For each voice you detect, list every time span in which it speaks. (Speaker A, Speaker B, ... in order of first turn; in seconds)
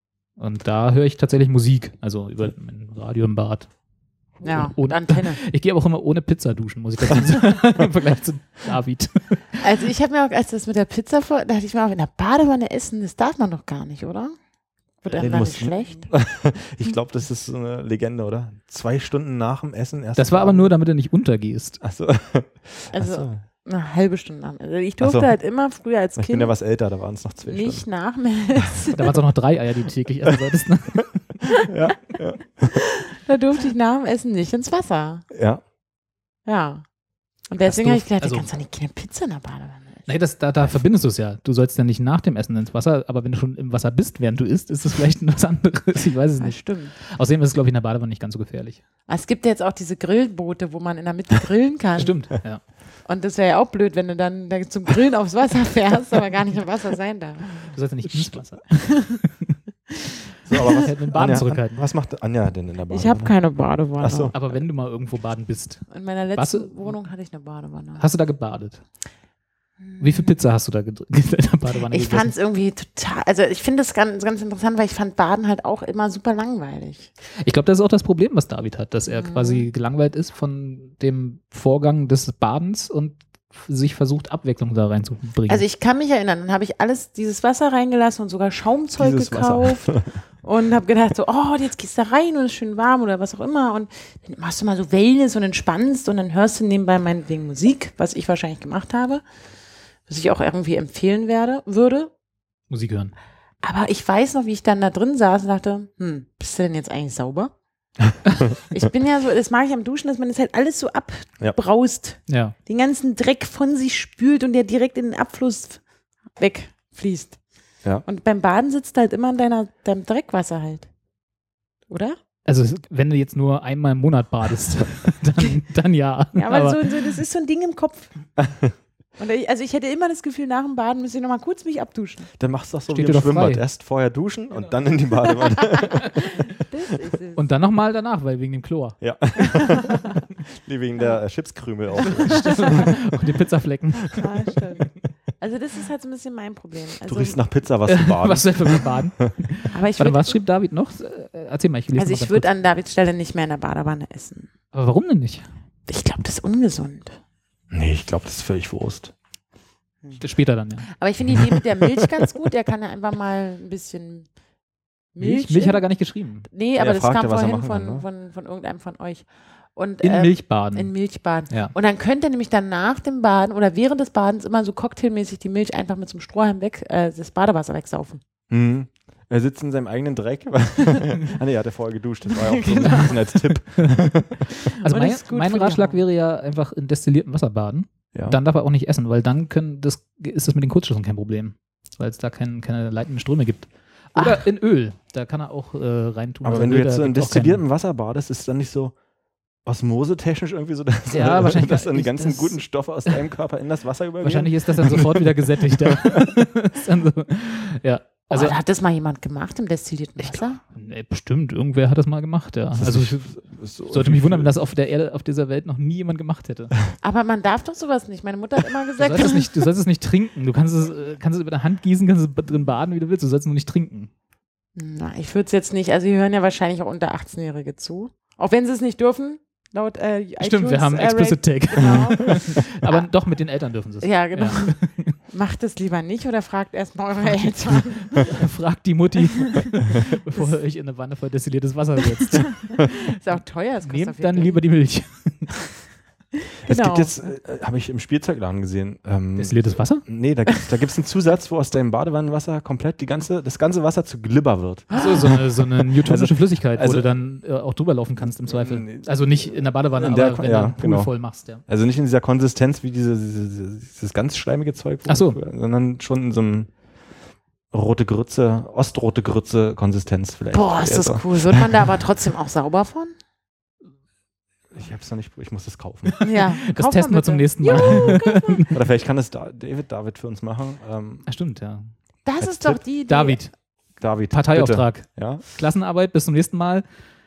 Speaker A: 0.4-3.7, 4.4-9.6, 20.1-21.8, 28.9-31.4, 37.6-38.5, 40.1-48.8, 52.0-52.6, 57.7-59.6, 60.5-61.8, 64.3-66.8, 68.0-68.8, 70.0-72.3, 77.4-85.6, 102.7-103.1, 112.3-112.5, 122.5-127.1, 132.9-133.6, 137.3-139.0, 142.0-144.3, 147.8-152.5, 154.7-155.4, 160.2-160.9, 165.2-166.5, 170.0-170.9, 184.8-197.6, 201.1-203.2, 204.2-208.6, 210.3-213.2, 213.9-216.8, 219.0-224.1, 230.4-235.1, 237.4-242.9, 243.8-245.7, 249.4-250.0, 254.9-261.6, 265.1-265.4, 276.1-278.8, 281.3-281.9, 283.1-283.5, 284.3-286.8
Speaker B: 4.4-5.4, 9.6-14.3, 15.0-16.1, 22.9-26.5, 27.4-29.1, 32.7-35.2, 36.5-36.8, 37.5-40.1, 46.4-46.9, 49.1-52.2, 53.0-57.7, 62.9-64.3, 65.9-68.0, 69.8-70.3, 71.9-77.1, 79.1-79.7, 85.5-99.2, 100.1-102.1, 103.6-107.5, 108.7-115.8, 116.4-117.4, 118.0-120.9, 121.9-122.2, 126.3-128.1, 129.2-132.3, 135.9-137.4, 139.4-140.1, 142.3-142.8, 144.2-144.9, 145.4-147.4, 149.7-150.4, 151.9-154.5, 155.9-157.2, 160.9-164.3, 165.1-165.8, 166.5-178.2, 182.3-183.5, 184.5-186.0, 194.1-194.4, 208.3-210.6, 217.0-219.6, 224.8-233.1, 234.0-234.7, 235.3-238.3, 242.2-244.6, 246.6-247.1, 254.9-255.3, 270.5-273.1, 276.2-278.7, 282.2-283.4
Speaker C: 15.1-20.7, 21.8-23.4, 25.0-25.3, 26.2-27.9, 31.6-32.8, 35.3-35.6, 60.5-63.3, 64.0-64.3, 89.0-90.0, 108.0-108.6, 128.4-128.7, 132.4-136.3, 139.0-143.0, 147.1-149.0, 157.7-159.1, 161.3-162.0, 166.8-168.0, 178.5-184.5, 196.4-198.9, 199.6-206.3, 212.8-214.5, 246.6-257.1, 258.4-261.1, 261.7-266.7, 267.7-271.8, 274.7-276.2, 277.7-281.2, 282.4-282.8, 284.0-285.4